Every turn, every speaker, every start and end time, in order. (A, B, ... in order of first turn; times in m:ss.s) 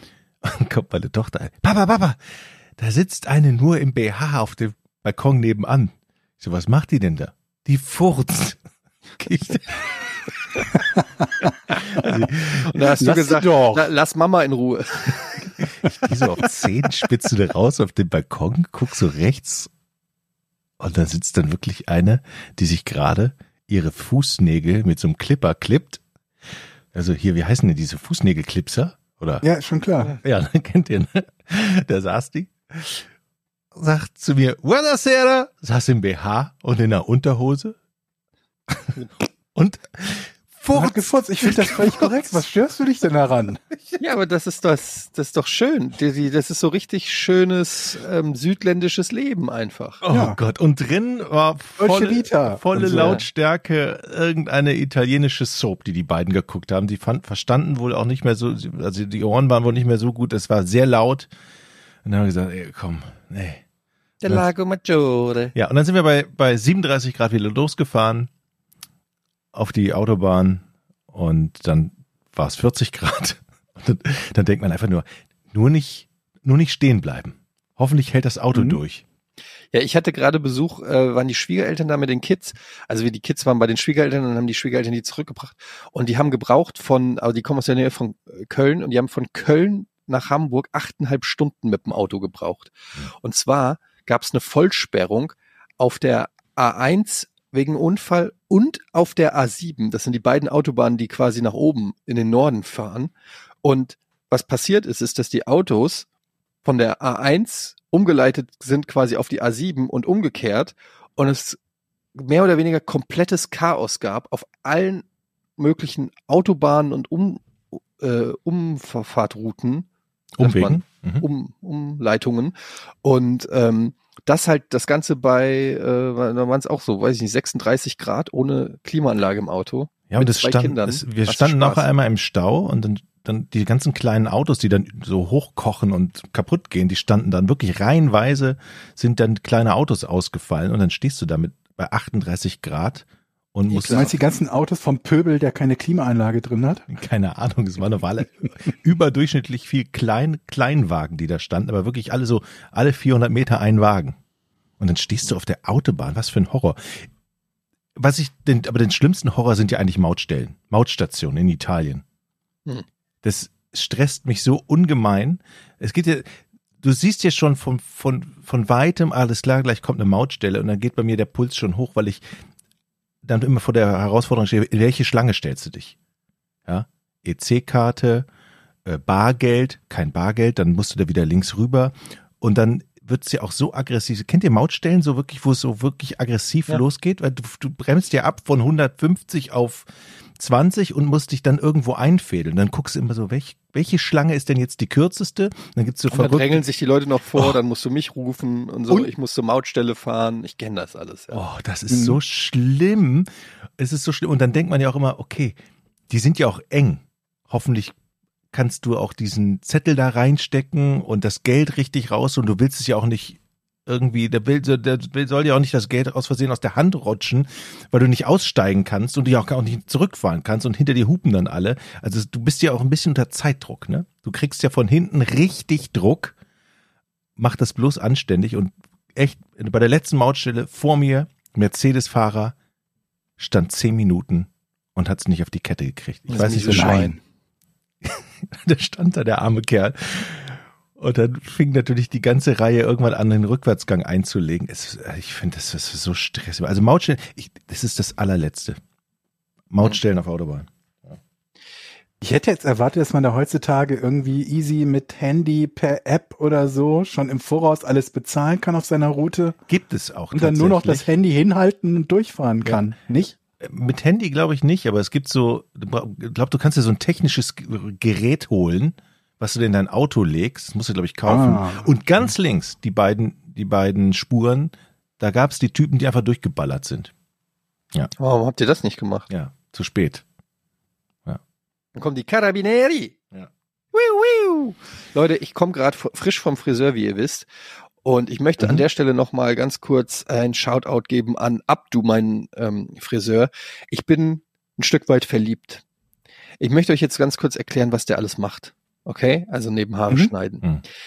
0:00.4-0:02.2 A
0:02.8-0:08.6 A
0:09.2-0:10.6 A
0:11.7-0:12.8 A
0:11.7-0:15.7 B
0:13.0-0:13.9 C
0:15.8-0:19.7 A
0:20.8-0:26.0 A
0:26.9-0:29.4 A
0:29.4-0:30.2 C
0:30.2-0:33.1 A
0:33.7-0:37.8 A
0:39.5-0:42.4 A
0:40.7-0:43.6 C
0:44.0-0:50.0 B
0:50.0-1:01.3 A
0:50.1-0:50.4 C
0:51.8-0:53.2 C
0:52.9-0:53.2 B
1:02.0-1:03.6 A
1:04.2-1:05.5 B
1:05.5-1:08.3 A
1:09.5-1:19.0 A
1:18.5-1:18.8 C
1:19.7-1:43.1 B
1:43.6-1:46.1 B
1:46.6-1:51.6 B
1:52.1-1:55.0 B
1:55.6-1:59.9 B
2:00.4-2:01.2 A
2:00.4-2:11.9 B
2:10.1-2:24.1 A
2:23.7-2:24.2 B
2:23.9-2:26.8 C
2:26.9-2:34.1 A
2:34.8-2:37.0 A
2:38.0-2:42.0 A
2:43.2-2:52.2 A
2:53.2-2:55.9 A
2:56.7-2:58.3 A
2:58.8-3:09.8 A
3:10.4-3:16.6 A
3:16.1-3:21.4 B
3:21.3-3:25.6 A
3:21.9-3:22.2 C
3:26.1-3:27.9 A
3:28.5-3:46.3 A
3:47.4-3:52.5 A
3:53.4-3:57.1 A
3:56.3-3:57.2 B
3:56.7-3:57.2 C
3:58.0-4:08.8 A
4:09.7-4:11.2 A
4:12.2-4:19.6 C
4:19.7-4:21.1 A
4:20.3-4:23.4 C
4:23.6-4:37.1 A
4:31.3-4:31.9 C
4:38.2-4:39.2 B
4:39.3-4:40.2 A
4:42.0-4:43.1 B
4:43.9-4:47.5 B
4:48.0-4:55.8 B
4:56.6-5:00.6 B